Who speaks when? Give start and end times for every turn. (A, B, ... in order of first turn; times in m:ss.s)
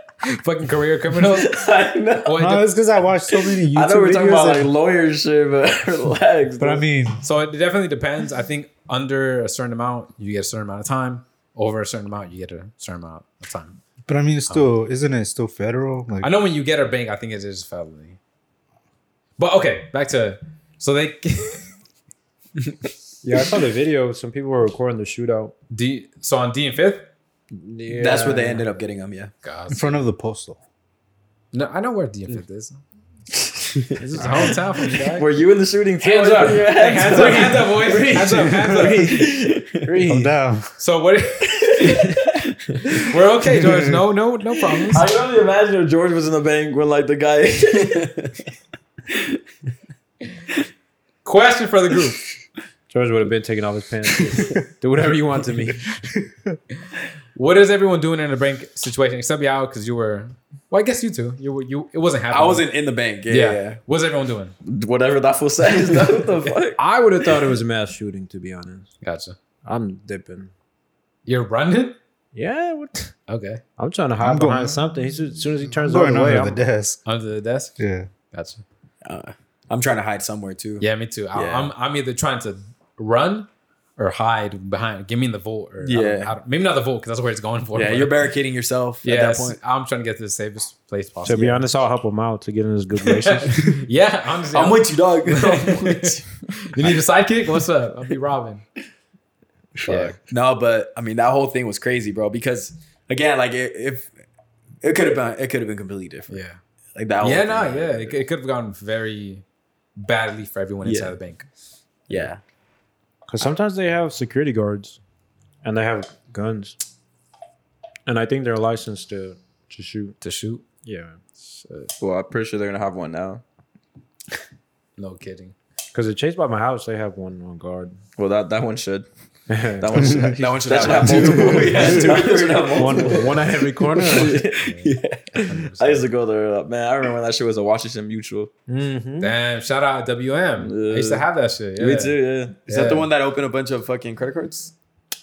0:00.2-0:01.6 A
0:01.2-0:02.4 B
0:02.2-0:02.8 A
0:02.4-0:04.7 C
0:03.3-0:06.8 B
0:06.6-0:07.2 C
0:07.2-0:13.8 A
0:14.0-0:16.3 C
0:16.2-0:18.2 A
0:19.4-0:21.7 A
0:23.2-0:25.5 D
0:25.7-0:27.1 A
0:27.5-0:28.6 D
0:27.9-0:29.3 E
0:29.4-0:29.9 A
0:29.7-0:30.6 C
0:31.5-0:32.8 A
0:33.9-0:35.2 A
0:34.9-0:37.8 B
0:36.0-0:40.4 D
0:36.8-0:39.2 A
0:40.0-0:40.8 C
0:40.8-0:42.1 A
0:41.8-0:42.2 B
0:43.0-0:45.1 A
0:44.9-0:48.3 B
0:51.2-0:52.2 A
0:52.9-0:56.0 D
0:57.3-1:02.7 A
1:02.3-1:03.8 E
1:03.3-1:04.5 A
1:04.6-1:06.8 B
1:06.8-1:08.9 D
1:09.0-1:09.4 A
1:09.6-1:10.5 D
1:11.2-1:12.0 A
1:12.3-1:13.1 D
1:13.3-1:13.6 A
1:13.8-1:16.6 D
1:14.2-1:14.9 C
1:15.6-1:17.0 C
1:17.0-1:17.7 A
1:17.8-1:18.1 C
1:18.3-1:18.6 A
1:19.0-1:21.7 E
1:20.8-1:28.2 A
1:25.8-1:26.3 E
1:27.7-1:29.6 E
1:29.0-1:31.6 A
1:31.2-1:33.8 D
1:33.0-1:38.6 A
1:34.5-1:36.2 E
1:39.8-1:40.1 C
1:39.8-1:40.2 A
1:40.2-1:44.1 E
1:44.8-1:46.4 E
1:46.3-1:46.6 A
1:46.9-1:48.2 E
1:47.2-1:49.4 A
1:50.0-1:51.4 A
1:50.8-1:51.1 E
1:52.1-1:52.4 E
1:53.3-1:55.0 D
1:55.6-1:56.8 D
1:58.0-2:00.2 D
2:00.2-2:00.6 A
2:00.8-2:01.2 D
2:01.4-2:01.9 A
2:02.0-2:03.4 B
2:05.0-2:05.5 A
2:05.9-2:08.0 D
2:08.2-2:09.0 B
2:09.5-2:10.3 D
2:09.8-2:14.6 B
2:10.4-2:13.3 E
2:11.1-2:14.4 D
2:14.1-2:15.7 E
2:14.5-2:16.0 A
2:15.8-2:18.5 B
2:18.7-2:19.3 D
2:19.2-2:23.1 A
2:20.6-2:22.6 B
2:22.6-2:24.7 E